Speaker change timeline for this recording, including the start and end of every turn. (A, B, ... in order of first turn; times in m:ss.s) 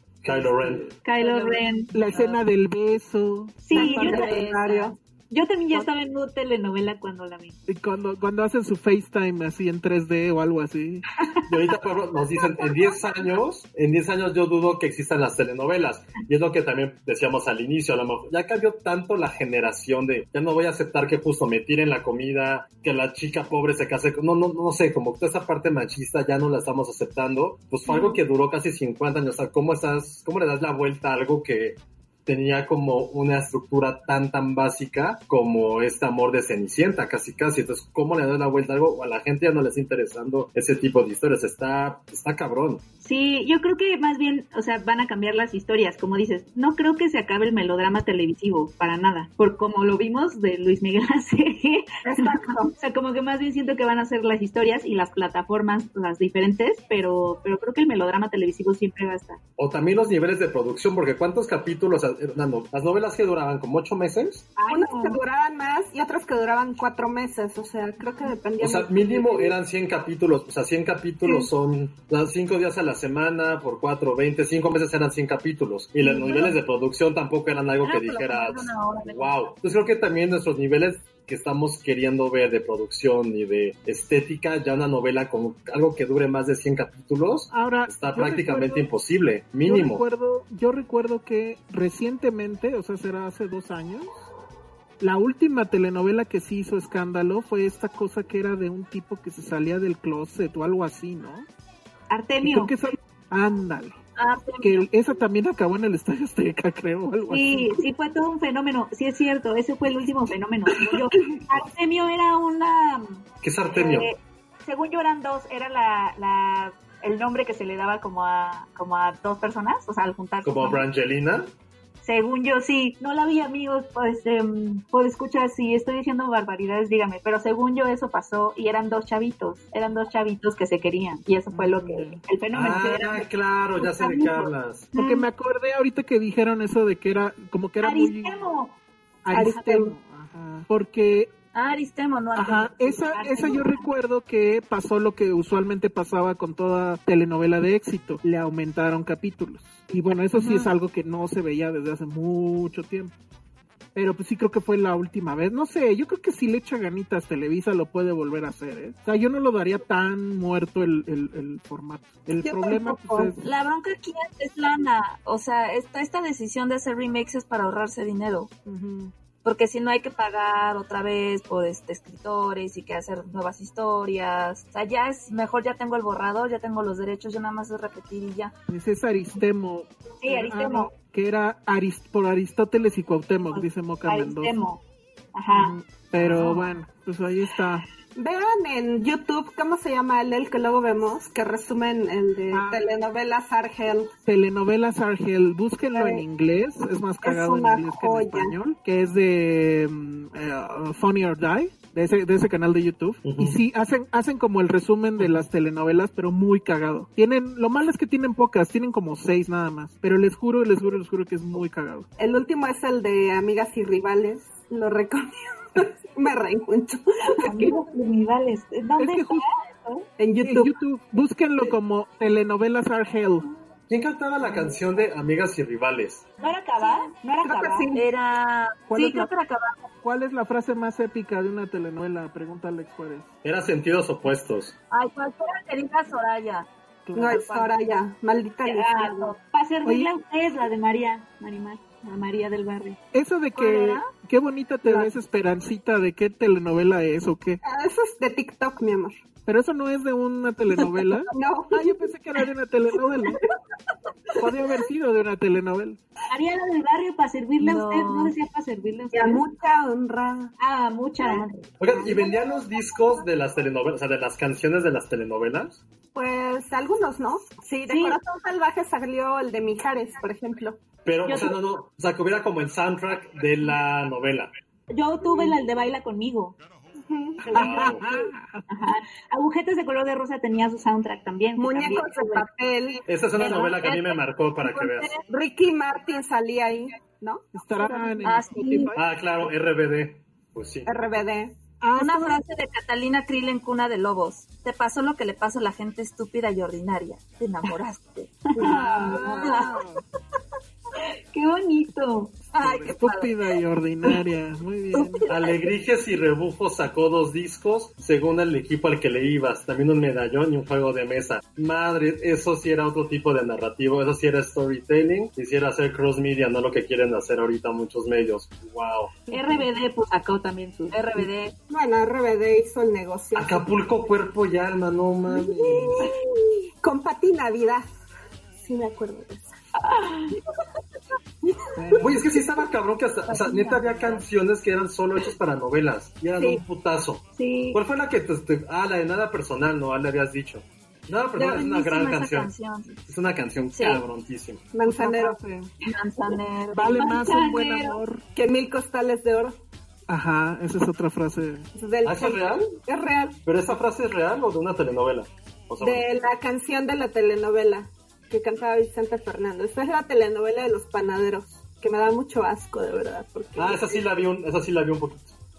0:00.2-0:00.9 A
0:00.2-0:01.0 B
0:01.0-0:02.0 C
0:01.2-0:01.6 D
0:01.9-0:04.0 B
0:03.6-0:07.6 C
0:03.7-0:05.0 D
0:03.7-0:04.9 E
0:07.7-0:11.1 B
0:11.2-0:11.7 C
0:11.5-0:42.8 A
0:27.9-0:28.2 E
0:43.0-0:59.4 C
0:52.1-0:52.7 E
0:59.6-1:04.5 A
1:04.6-1:05.2 C
1:04.7-1:09.6 E
1:08.6-1:30.0 A
1:16.1-1:16.5 E
1:17.8-1:19.4 D
1:27.5-1:28.9 B
1:29.6-1:34.2 B
1:35.0-1:41.5 B
1:42.1-1:42.7 C
1:42.4-1:44.0 B
1:44.2-1:44.9 D
1:44.6-1:47.8 B
1:47.3-2:00.9 C
1:53.4-1:54.1 A
2:00.4-2:01.5 A
2:02.0-2:15.3 C
2:11.5-2:12.2 B
2:12.5-2:14.9 A
2:14.9-2:18.4 B
2:17.8-2:18.8 C
2:19.2-2:21.3 B
2:19.3-2:20.0 E
2:21.5-2:23.0 D
2:22.4-2:33.1 B
2:23.1-2:23.8 C
2:34.0-2:43.4 B
2:42.4-2:43.3 E
2:43.4-2:48.5 D
2:48.7-2:49.1 B
2:49.4-2:58.5 D
2:58.7-3:04.6 B
3:00.2-3:00.9 C
3:03.5-3:04.8 C
3:05.3-3:05.8 C
3:05.5-3:07.9 B
3:06.3-3:06.6 C
3:08.2-3:14.1 E
3:12.5-3:12.9 B
3:14.3-3:32.1 B
3:15.9-3:16.2 E
3:17.2-3:18.5 E
3:23.2-3:23.6 A
3:32.2-3:37.8 E
3:37.4-3:40.1 C
3:39.0-3:39.4 B
3:40.2-3:40.8 E
3:40.4-3:43.5 B
3:43.9-3:46.3 A
3:46.4-3:47.9 C
3:46.8-3:47.1 D
3:47.4-3:48.0 E
3:48.0-3:49.9 D
3:48.9-3:49.3 B
3:50.0-3:53.3 B
3:53.4-3:54.8 A
3:54.9-3:56.7 D
3:57.1-3:57.4 B
3:57.2-3:59.4 E
3:57.2-3:57.8 D
3:58.6-4:03.0 C
3:59.8-4:00.1 B
4:03.1-4:07.6 B
4:03.6-4:04.1 D
4:04.9-4:05.1 E
4:07.6-4:09.1 E
4:09.5-4:13.4 B
4:11.3-4:12.1 E
4:14.4-4:16.0 B
4:16.3-4:18.4 C
4:17.6-4:19.4 D
4:19.1-4:20.5 E
4:20.6-4:21.6 C
4:21.8-4:25.8 A
4:26.1-4:30.8 E
4:27.9-4:28.2 C
4:31.0-4:34.5 A
4:31.2-4:31.6 C
4:34.9-4:36.6 C
4:35.2-4:35.6 E
4:37.0-4:38.1 E
4:37.5-4:38.0 C
4:37.5-4:38.7 B
4:37.7-4:38.0 A
4:38.7-4:42.5 C
4:41.6-4:43.1 E
4:43.1-4:45.1 A
4:43.4-4:45.2 D
4:45.3-4:48.8 E
4:47.5-4:49.0 B
4:48.2-4:49.0 D
4:49.0-4:51.0 A
4:50.9-4:51.6 E
4:51.8-4:52.4 B
4:52.0-4:58.4 D
4:58.5-4:59.8 C
4:58.6-5:00.0 B
4:58.6-4:59.5 E
4:59.0-4:59.8 D
5:01.3-5:02.5 C
5:02.5-5:03.4 D
5:02.6-5:05.3 B
5:05.2-5:05.7 D
5:05.3-5:19.2 A
5:19.3-5:19.7 B
5:19.3-5:21.3 C
5:20.9-5:21.6 D
5:21.7-5:23.7 E
5:23.4-5:26.1 A
5:25.3-5:26.2 E
5:26.8-5:28.0 E
5:28.6-5:29.6 E
5:29.8-5:30.4 C
5:31.5-5:32.2 E
5:31.8-5:32.2 B
5:32.0-5:42.5 A
5:33.4-5:34.2 D
5:37.4-5:37.8 C
5:41.4-5:43.0 D
5:43.1-5:44.6 A
5:43.7-5:44.0 D
5:44.7-5:45.4 E
5:44.8-5:45.7 B
5:45.8-5:47.2 D
5:46.7-5:48.2 B
5:47.0-5:48.0 C
5:48.4-5:49.6 E
5:50.1-5:51.7 B
5:51.8-5:53.4 E
5:52.0-5:52.7 A
5:53.4-5:56.3 A
5:55.8-6:04.1 E
6:03.6-6:05.4 A